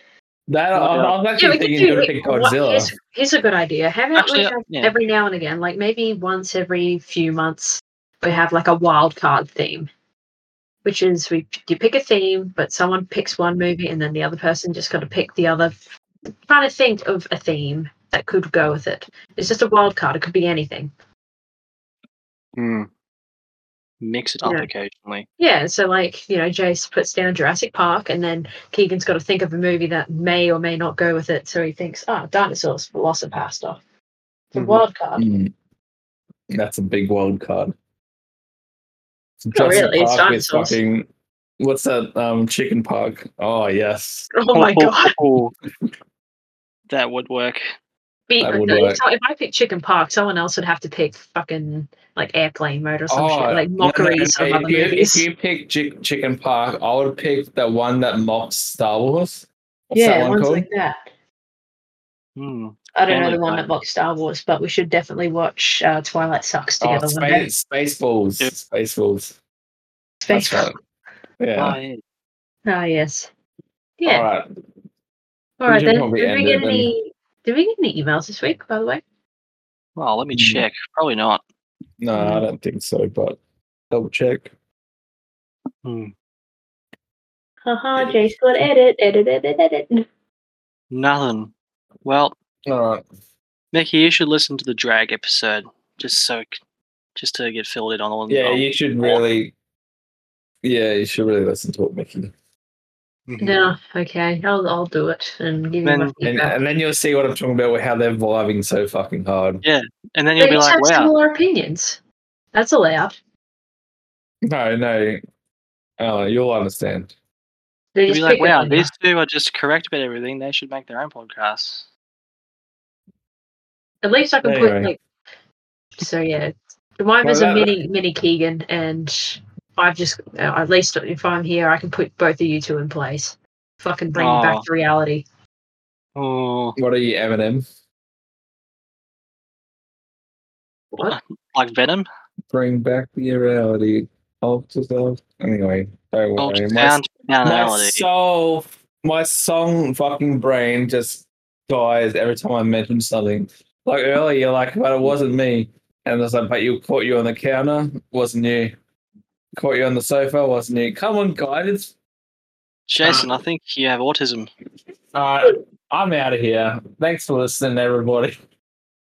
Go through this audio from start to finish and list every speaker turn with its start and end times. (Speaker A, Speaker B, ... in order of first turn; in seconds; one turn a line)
Speaker A: 0.5-2.9
Speaker B: 0.7-1.2
Speaker C: 1.4-9.9
Speaker B: 4.1-4.9
Speaker C: 10.8-15.8
Speaker C: 16.5-20.9
Speaker B: 22.6-22.9
Speaker B: 24.0-25.3
Speaker C: 24.4-24.7
Speaker C: 25.4-33.8
Speaker C: 34.5-35.2
Speaker B: 34.5-34.8
Speaker A: 35.2-35.5
Speaker A: 36.5-37.7
Speaker A: 39.4-41.1
Speaker C: 39.5-40.8
Speaker A: 41.6-44.3
Speaker C: 44.3-45.1
Speaker B: 44.5-45.5
Speaker B: 46.9-47.6
Speaker C: 48.3-55.2
Speaker A: 48.4-49.0
Speaker A: 53.1-60.7
Speaker C: 59.9-61.1
Speaker B: 62.4-63.7
Speaker C: 62.9-67.5
Speaker A: 66.8-69.3
Speaker C: 70.2-70.7
Speaker A: 70.3-70.8
Speaker A: 71.4-71.8
Speaker B: 71.5-72.0
Speaker C: 72.7-73.3
Speaker C: 74.0-74.3
Speaker A: 74.0-74.5
Speaker C: 75.6-79.0
Speaker A: 75.7-76.9
Speaker B: 80.0-81.4
Speaker A: 80.3-80.6
Speaker A: 82.0-83.4
Speaker C: 82.1-82.4
Speaker A: 83.9-84.5
Speaker B: 85.8-86.1
Speaker C: 87.6-90.0
Speaker B: 90.9-91.5
Speaker B: 92.0-92.3
Speaker A: 92.7-93.0
Speaker B: 93.7-96.6
Speaker B: 97.2-99.2
Speaker A: 98.3-99.5
Speaker A: 100.6-102.3
Speaker B: 103.3-103.6
Speaker C: 103.4-106.5
Speaker B: 105.8-106.1
Speaker A: 106.2-109.6
Speaker B: 109.6-111.1
Speaker C: 110.4-112.0
Speaker C: 112.5-113.2
Speaker A: 114.4-115.2
Speaker A: 116.0-117.1
Speaker C: 117.9-118.9
Speaker B: 118.1-121.8
Speaker C: 124.0-125.0
Speaker A: 124.4-124.9
Speaker C: 126.0-135.2
Speaker A: 127.2-127.7
Speaker B: 134.2-134.6
Speaker B: 136.2-136.8
Speaker A: 136.8-137.6
Speaker C: 140.9-141.2
Speaker B: 141.1-142.1
Speaker A: 142.5-158.7
Speaker B: 146.4-148.0
Speaker A: 159.6-161.9
Speaker B: 162.9-164.5
Speaker A: 165.1-168.3